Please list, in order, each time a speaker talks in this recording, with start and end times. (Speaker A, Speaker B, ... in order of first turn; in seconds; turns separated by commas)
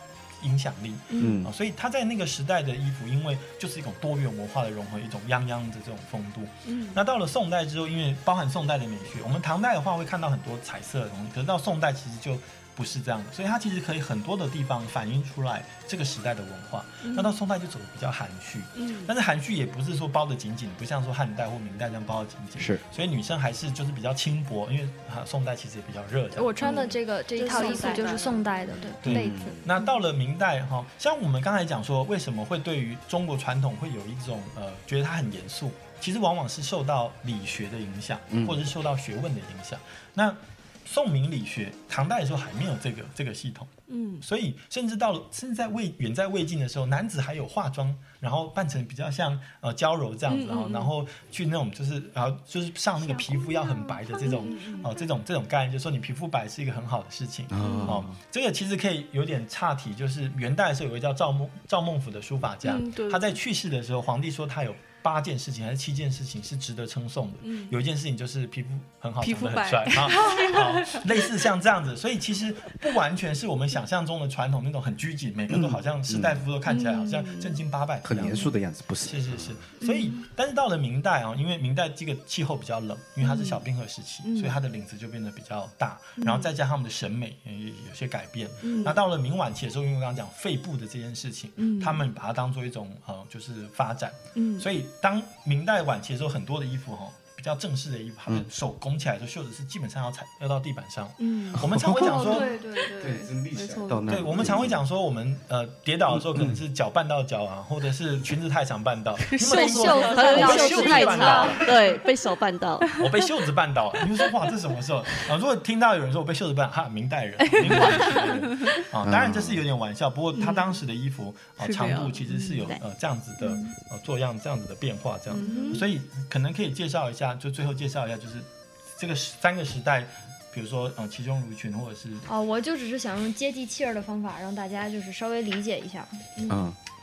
Speaker A: 0.4-26.9, Speaker B: 1.1-1.4, Speaker C: 1.2-1.5, Speaker B: 6.7-7.0, Speaker B: 17.0-17.4, Speaker B: 18.8-19.1, Speaker C: 22.6-22.8, Speaker D: 26.4-29.6, Speaker B: 26.6-29.0, Speaker E: 27.5-28.1, Speaker C: 29.0-29.6, Speaker A: 29.1-78.5, Speaker C: 38.3-38.6, Speaker B: 43.9-44.2, Speaker B: 50.3-50.9, Speaker B: 53.0-55.0, Speaker C: 57.5-58.1, Speaker B: 57.6-58.1, Speaker B: 62.6-63.4, Speaker B: 67.4-67.8, Speaker B: 69.2-71.3, Speaker C: 75.5-76.4, Speaker B: 76.7-77.6, Speaker C: 78.0-79.6, Speaker B: 78.2-78.5, Speaker A: 79.0-102.5, Speaker B: 79.8-80.2, Speaker B: 83.2-83.6, Speaker B: 84.2-84.6, Speaker B: 86.2-86.5, Speaker B: 88.6-89.0, Speaker B: 91.6-92.0, Speaker B: 94.3-94.7, Speaker B: 101.2-104.6, Speaker C: 101.6-102.3, Speaker C: 103.0-104.8, Speaker A: 104.1-111.7, Speaker C: 106.1-106.6, Speaker B: 109.2-112.0, Speaker D: 109.5-111.6, Speaker E: 109.6-112.9, Speaker B: 112.8-113.2, Speaker A: 113.0-132.3, Speaker B: 117.4-118.8, Speaker C: 119.0-119.6, Speaker B: 120.3-120.8, Speaker B: 121.6-122.6, Speaker B: 125.3-125.9, Speaker D: 125.5-125.8, Speaker D: 132.3-136.3, Speaker C: 136.5-136.8